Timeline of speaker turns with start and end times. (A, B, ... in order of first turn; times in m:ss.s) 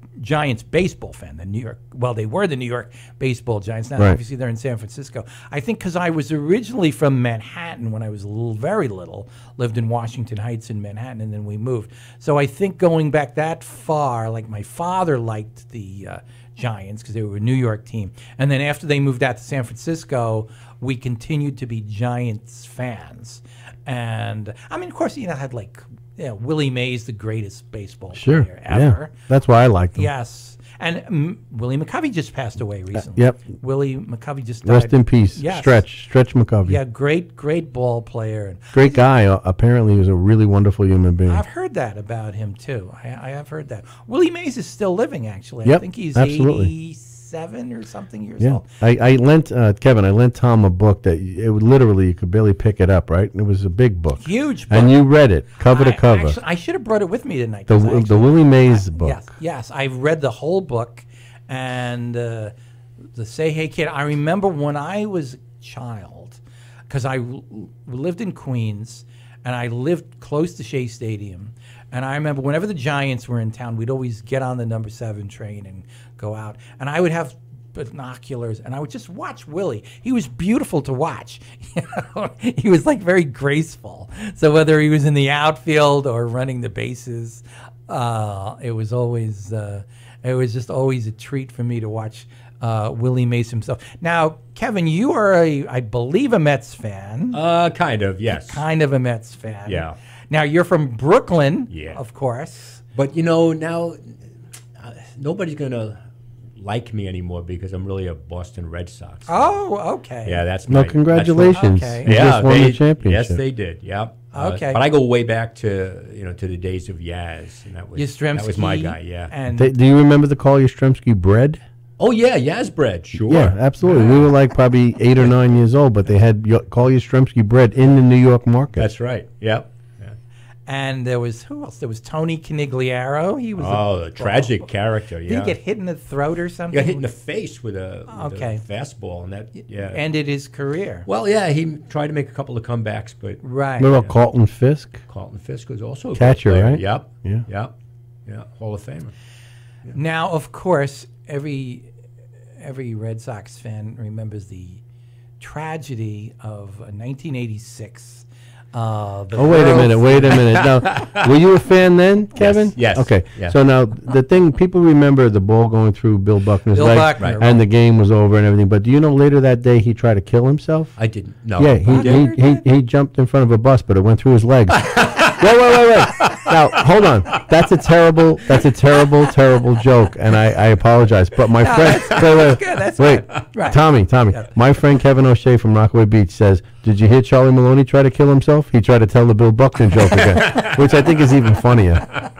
0:00.2-0:29.1 A
0:28.2-0:30.1 B
0:30.0-0:35.8 A
0:33.0-0:33.4 B
0:34.6-0:36.8 B
0:36.6-0:39.0 A
0:38.7-0:41.4 B
0:41.3-0:48.7 A
0:45.6-0:46.7 B
0:48.4-0:56.4 B
0:54.2-0:55.0 A
0:55.6-1:02.5 A
0:57.7-0:59.3 B
1:03.2-1:37.4 A
1:37.3-1:38.6 C
1:38.3-1:42.8 A
1:39.7-1:40.0 C
1:41.7-1:42.0 C
1:43.0-1:44.2 C
1:44.8-1:46.0 C
1:46.6-1:49.6 C
1:49.3-1:50.4 A
1:50.2-1:59.3 C
1:50.7-1:53.4 B
1:51.5-1:52.1 A
1:54.3-1:54.8 A
1:58.0-1:59.7 A
1:59.5-2:01.6 B
2:02.0-2:04.3 C
2:03.2-2:08.9 B
2:08.8-2:10.2 C
2:10.7-2:14.6 A
2:13.6-2:15.6 C
2:15.3-2:17.1 A
2:16.7-2:20.0 C
2:18.1-2:18.6 A
2:19.9-2:21.1 A
2:21.1-2:24.2 C
2:23.4-2:23.9 A
2:23.8-2:25.0 B
2:25.1-2:27.7 C
2:26.2-2:27.4 B
2:28.3-2:29.1 C
2:29.9-2:31.9 A
2:32.6-2:34.8 A
2:35.4-2:40.7 A
2:39.4-2:51.0 B
2:40.8-2:41.3 C
2:42.4-2:43.6 C
2:46.7-2:47.6 A
2:51.0-2:52.3 C
2:51.6-3:12.1 B
2:51.9-2:52.6 A
2:54.8-2:55.3 C
2:56.2-2:56.5 C
3:01.6-3:04.5 A
3:10.4-3:10.7 C